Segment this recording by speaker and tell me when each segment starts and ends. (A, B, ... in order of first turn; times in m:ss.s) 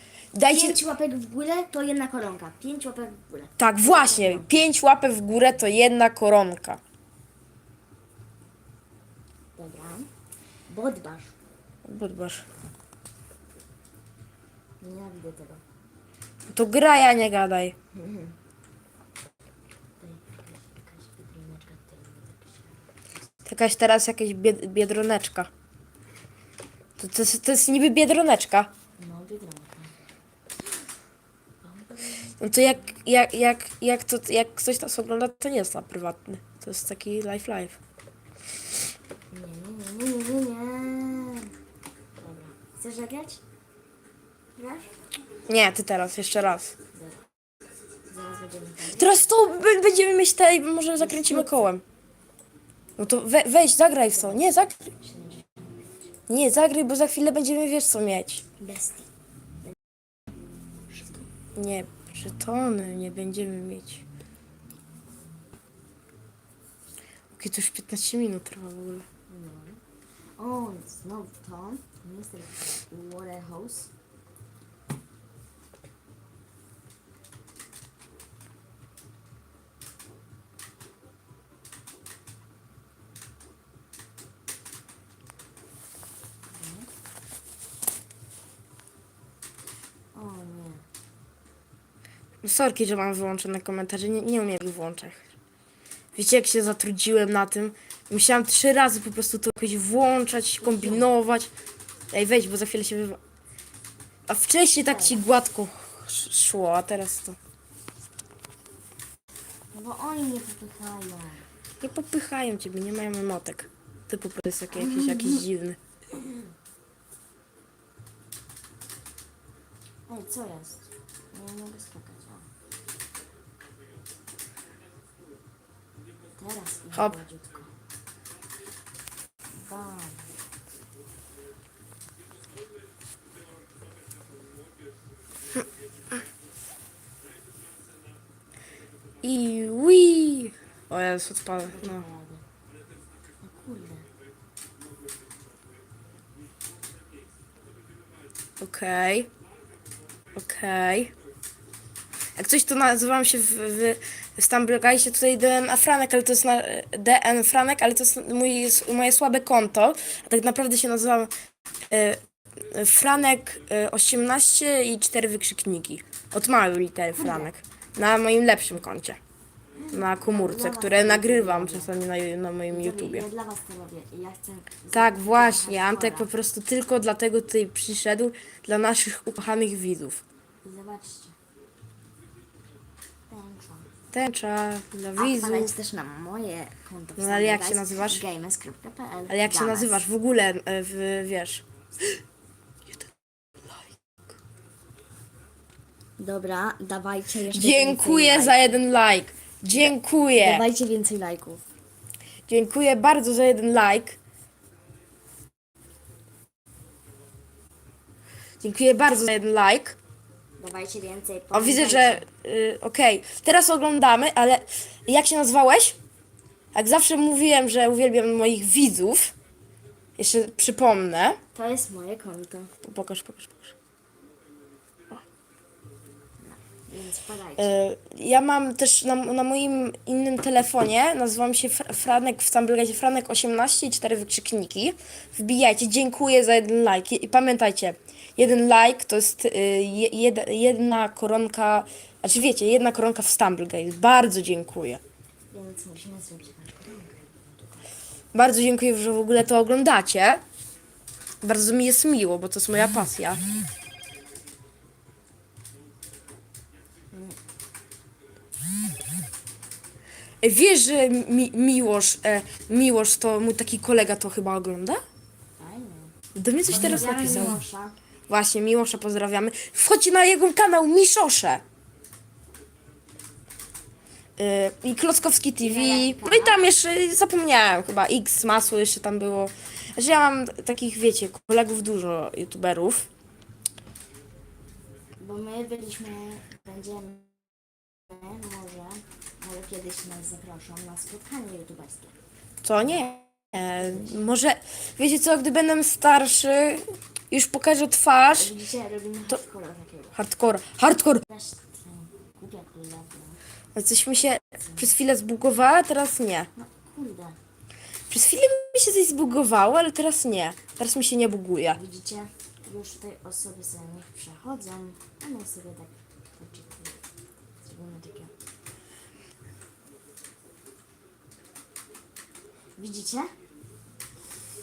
0:00.3-0:00.8 A
0:00.5-0:04.7 B
0:03.6-0:06.8 A
0:09.6-0:10.1 B
0:10.7-0:11.4 B
0:11.8-0:12.4 A
0:14.8-0:15.6 B
0:16.5-0:17.8 A
0:17.9-0:18.4 B
0:20.0-0:22.8 B
0:23.4-0:25.5 A
0:27.0-0:28.7 A
0:29.0-0:30.0 B
0:31.6-0:32.8 B
0:32.4-0:37.8 A
0:39.3-0:41.5 B
0:42.2-0:43.4 B
0:44.6-0:44.9 B
0:45.5-0:46.8 A
0:46.9-0:47.2 B
0:48.1-0:49.2 B
0:48.9-0:51.8 A
0:51.0-0:51.6 B
0:53.0-0:54.9 A
0:54.1-0:56.1 B
0:56.3-0:58.4 A
0:58.6-0:59.1 B
1:00.9-1:01.3 B
1:01.6-1:04.0 A
1:07.4-1:09.1 A
1:09.3-1:09.8 B
1:10.4-1:13.9 B
1:26.5-1:26.9 B
1:30.1-1:30.8 B
1:32.4-1:35.3 A
1:36.2-1:41.5 A
1:40.6-1:41.1 B
1:42.1-1:43.2 A
1:44.3-1:47.4 A
1:44.9-1:45.2 B
1:49.7-1:51.5 B
1:51.8-1:55.8 A
1:54.7-1:55.4 B
1:56.1-1:56.5 B
2:00.1-2:02.5 B
2:06.4-2:07.8 B
2:06.9-2:07.2 A
2:09.5-2:10.4 B
2:19.2-2:22.0 A
2:21.7-2:22.4 B
2:23.4-2:24.1 B
2:28.6-2:29.3 A
2:30.4-2:31.1 A
2:32.4-2:41.3 A
2:41.9-2:42.2 A
2:42.7-2:49.2 A
2:47.2-2:47.5 B
2:49.7-2:51.9 B
2:49.9-2:53.3 A
2:52.7-2:56.3 B
2:54.9-3:00.2 A
3:00.6-3:01.4 B
3:03.3-3:03.9 B
3:04.1-3:05.8 A
3:05.2-3:10.0 B
3:07.2-3:08.2 A
3:09.3-3:12.2 A
3:16.2-3:18.8 B
3:17.5-3:20.7 A
3:19.7-3:21.6 B
3:22.5-3:24.2 A
3:28.6-3:30.0 A
3:30.6-3:32.3 B
3:31.5-3:36.0 A
3:36.8-3:39.4 A
3:40.2-3:41.4 A
3:41.6-3:42.7 B
3:42.8-3:43.8 A
3:46.4-3:47.8 B
3:47.6-4:05.0 A
4:05.5-4:07.8 B
4:08.3-4:10.4 A
4:11.4-4:13.4 A
4:17.1-4:17.4 B
4:20.4-4:25.0 A
4:25.6-4:26.2 B
4:26.4-4:27.6 A
4:26.7-4:28.0 B
4:28.3-4:31.6 A
4:34.4-4:43.1 A
4:35.6-4:36.7 B
4:45.2-4:52.2 B
4:52.6-4:58.5 A
4:52.8-4:53.1 B
4:53.8-4:54.2 B
4:58.3-5:00.2 B
5:00.2-5:01.2 A
5:01.3-5:03.4 B
5:03.8-5:06.5 A
5:04.6-5:04.9 B
5:06.6-5:07.4 B
5:08.1-5:11.8 A
5:11.7-5:17.0 B
5:17.6-5:18.3 B
5:22.8-5:23.3 B